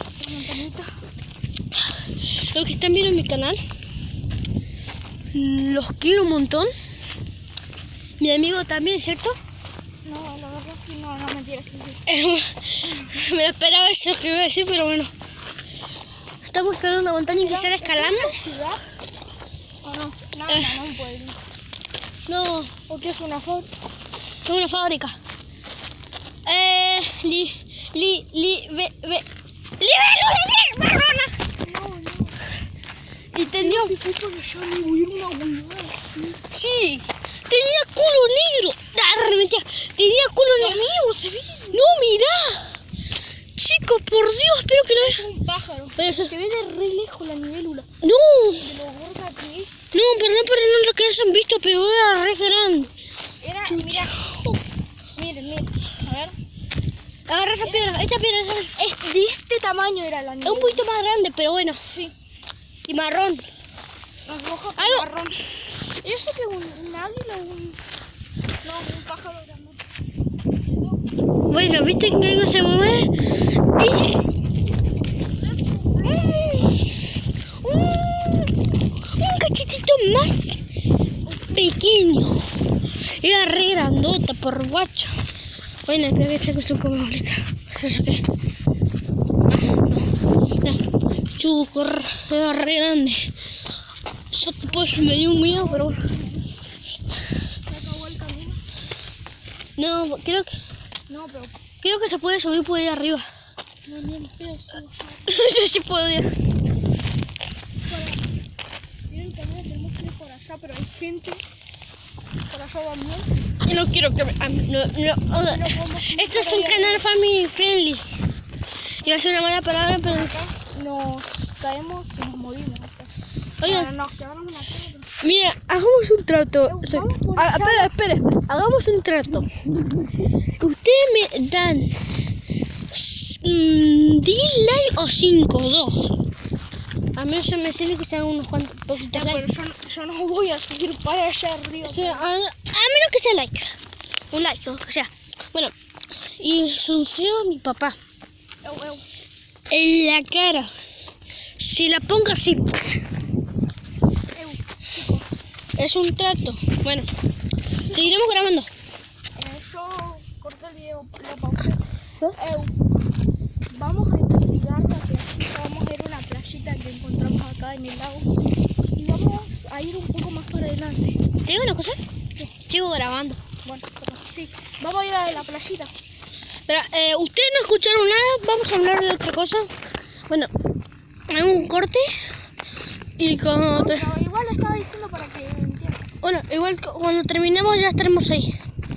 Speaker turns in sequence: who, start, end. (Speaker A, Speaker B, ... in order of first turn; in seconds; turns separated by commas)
Speaker A: 0.2-0.9, Speaker B: 2.0-3.6, Speaker B: 5.3-6.7, Speaker B: 8.2-9.3, Speaker A: 10.1-12.0, Speaker B: 12.1-15.1, Speaker B: 16.5-18.4, Speaker A: 17.4-18.8, Speaker A: 19.8-21.4, Speaker B: 22.3-22.7, Speaker A: 22.9-23.7, Speaker B: 24.4-25.2, Speaker B: 26.4-29.3, Speaker B: 29.8-31.4, Speaker A: 31.6-32.4, Speaker B: 33.3-34.0, Speaker A: 33.4-36.3, Speaker B: 36.2-40.9, Speaker A: 40.6-41.9, Speaker B: 41.7-42.8, Speaker B: 43.6-45.3, Speaker A: 44.9-47.9, Speaker B: 46.0-46.4, Speaker B: 48.0-48.7, Speaker A: 48.6-49.8, Speaker B: 49.9-52.9, Speaker A: 53.4-54.2, Speaker B: 53.7-54.6, Speaker A: 55.2-56.4, Speaker B: 57.3-58.8, Speaker A: 57.6-58.0, Speaker A: 58.8-60.8, Speaker B: 60.4-61.8, Speaker A: 61.9-62.1, Speaker B: 62.9-63.4, Speaker A: 64.3-65.4, Speaker B: 64.8-65.1, Speaker A: 65.9-67.8, Speaker A: 68.6-69.8, Speaker B: 71.5-73.1, Speaker B: 73.8-74.2, Speaker A: 75.6-76.8, Speaker B: 76.0-76.9, Speaker B: 77.6-80.6, Speaker A: 81.3-81.7, Speaker B: 81.5-82.5, Speaker B: 83.1-85.2, Speaker B: 85.9-88.2, Speaker B: 89.5-90.8, Speaker B: 91.3-93.3, Speaker B: 94.3-96.0, Speaker A: 94.7-96.5, Speaker A: 97.7-98.6, Speaker B: 99.8-100.5, Speaker A: 101.1-101.5, Speaker B: 101.8-103.3, Speaker A: 103.9-105.3, Speaker B: 105.3-106.3, Speaker A: 107.8-108.2, Speaker A: 109.1-111.4, Speaker A: 112.5-113.3, Speaker B: 113.7-118.1, Speaker A: 115.4-117.1, Speaker B: 119.0-120.4, Speaker A: 119.1-123.1, Speaker B: 123.6-123.9, Speaker A: 123.6-125.2, Speaker B: 125.2-129.5, Speaker A: 126.7-127.9, Speaker B: 130.6-132.0, Speaker B: 132.9-136.2, Speaker B: 137.2-139.4, Speaker A: 139.0-142.3, Speaker B: 141.8-143.8, Speaker B: 144.3-145.7, Speaker B: 146.4-148.0, Speaker A: 148.6-149.0, Speaker B: 149.7-150.7, Speaker B: 151.6-153.0, Speaker A: 154.3-155.3, Speaker B: 155.8-157.1, Speaker A: 157.8-158.3, Speaker B: 157.9-158.7, Speaker A: 159.3-161.8, Speaker A: 162.3-162.8, Speaker A: 163.7-168.3, Speaker A: 169.0-171.2, Speaker B: 171.4-172.0, Speaker B: 172.7-173.4, Speaker A: 173.6-175.9, Speaker B: 176.7-179.7, Speaker B: 181.3-182.1, Speaker B: 183.2-184.1, Speaker A: 183.7-186.1, Speaker B: 186.2-188.5